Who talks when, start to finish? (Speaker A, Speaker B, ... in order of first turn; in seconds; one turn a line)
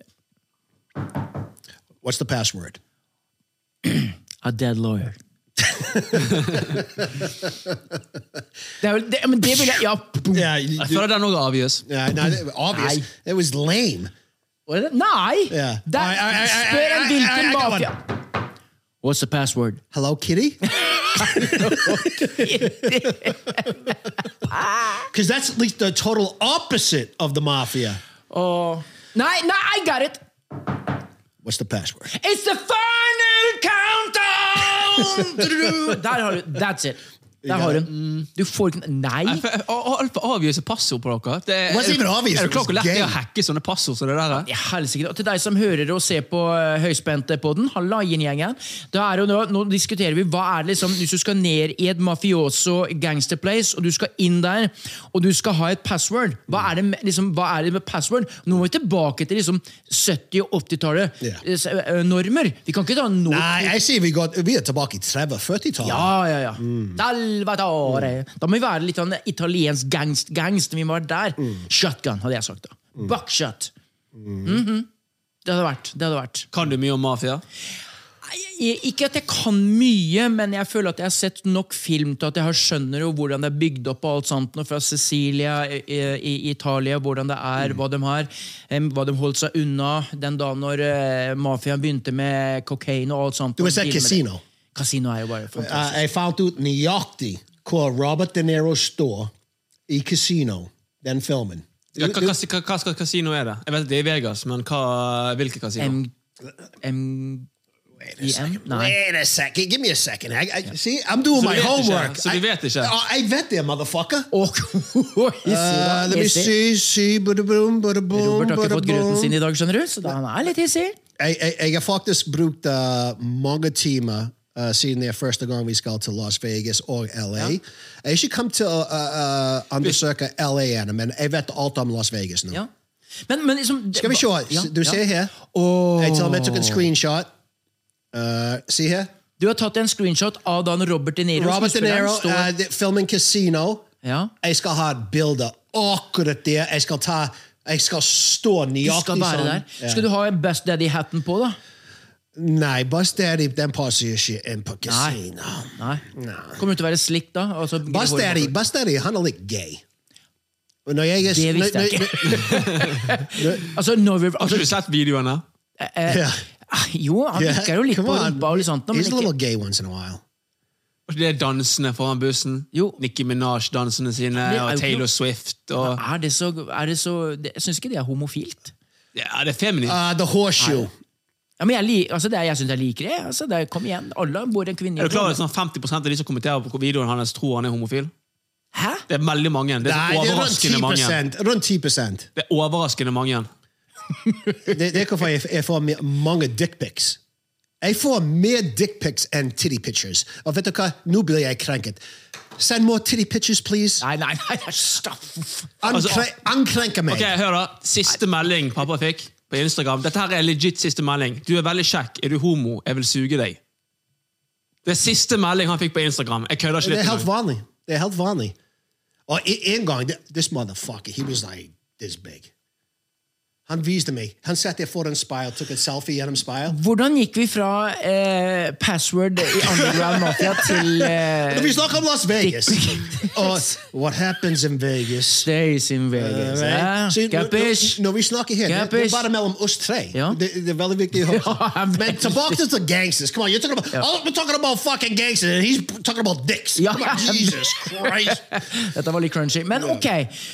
Speaker A: 2.0-2.8
Speaker B: 3.8-5.1
Speaker A: 5.6-7.8
Speaker B: 8.8-10.5
Speaker A: 10.3-11.1
Speaker C: 10.8-11.8
Speaker A: 11.9-14.1
Speaker B: 12.7-13.1
Speaker B: 14.7-18.2
Speaker A: 15.5-17.9
Speaker B: 19.0-19.8
Speaker A: 19.9-23.7
Speaker B: 20.7-25.1
Speaker A: 25.1-28.0
Speaker B: 28.3-30.2
Speaker A: 31.4-32.1
Speaker B: 32.1-39.4
Speaker A: 35.0-35.9
Speaker A: 37.4-37.9
Speaker C: 37.9-38.3
Speaker C: 39.2-44.5
Speaker A: 41.7-43.2
Speaker B: 44.4-63.8
Speaker A: 63.3-67.0
Speaker B: 65.8-73.7
Speaker A: 74.2-74.6
Speaker B: 74.4-74.9
Speaker B: 75.4-76.5
Speaker C: 76.5-77.4
Speaker B: 78.3-96.0
Speaker A: 93.6-94.4
Speaker A: 95.5-99.3
Speaker A: 99.9-102.4
Speaker C: 102.0-106.0
Speaker B: 105.8-106.1
Speaker B: 106.8-107.5
Speaker A: 108.0-114.3
Speaker B: 108.2-109.0
Speaker C: 111.3-112.9
Speaker B: 114.3-116.5
Speaker A: 115.4-119.4
Speaker B: 118.1-121.0
Speaker A: 121.2-132.6
Speaker B: 133.3-136.9
Speaker A: 133.9-135.4
Speaker A: 136.0-137.3
Speaker A: 138.1-139.1
Speaker B: 139.4-142.5
Speaker A: 141.4-143.9
Speaker B: 144.0-144.3
Speaker A: 144.4-150.1
Speaker B: 148.8-151.6
Speaker A: 152.3-156.6
Speaker B: 154.9-155.2
Speaker B: 155.8-156.1
Speaker B: 156.6-158.5
Speaker A: 157.8-159.8
Speaker A: 160.9-163.7
Speaker B: 161.3-164.7
Speaker C: 164.4-165.4
Speaker B: 165.8-169.3
Speaker A: 166.1-166.4
Speaker A: 167.3-170.2
Speaker C: 171.1-176.0
Speaker B: 172.7-173.0
Speaker B: 174.4-175.0
Speaker B: 175.8-178.7
Speaker C: 179.1-180.0
Speaker A: 179.8-180.9
Speaker B: 180.6-180.9
Speaker B: 181.6-185.4
Speaker C: 185.0-188.1
Speaker B: 188.7-189.0
Speaker C: 189.1-191.2
Speaker A: 189.8-192.3
Speaker C: 192.4-193.5
Speaker B: 194.2-194.7
Speaker A: 194.7-197.2
Speaker A: 197.8-202.0
Speaker A: 202.6-204.0
Speaker B: 204.0-205.8
Speaker A: 205.8-207.3
Speaker C: 205.9-206.2
Speaker C: 207.1-213.6
Speaker C: 214.8-217.3
Speaker A: 216.8-218.6
Speaker A: 219.3-222.5
Speaker A: 223.7-226.8
Speaker B: 226.7-233.6
Speaker A: 230.5-235.5
Speaker B: 235.4-238.0
Speaker A: 236.2-248.6
Speaker B: 238.7-239.3
Speaker B: 240.1-240.4
Speaker B: 241.2-242.6
Speaker B: 246.8-250.3
Speaker A: 249.7-250.0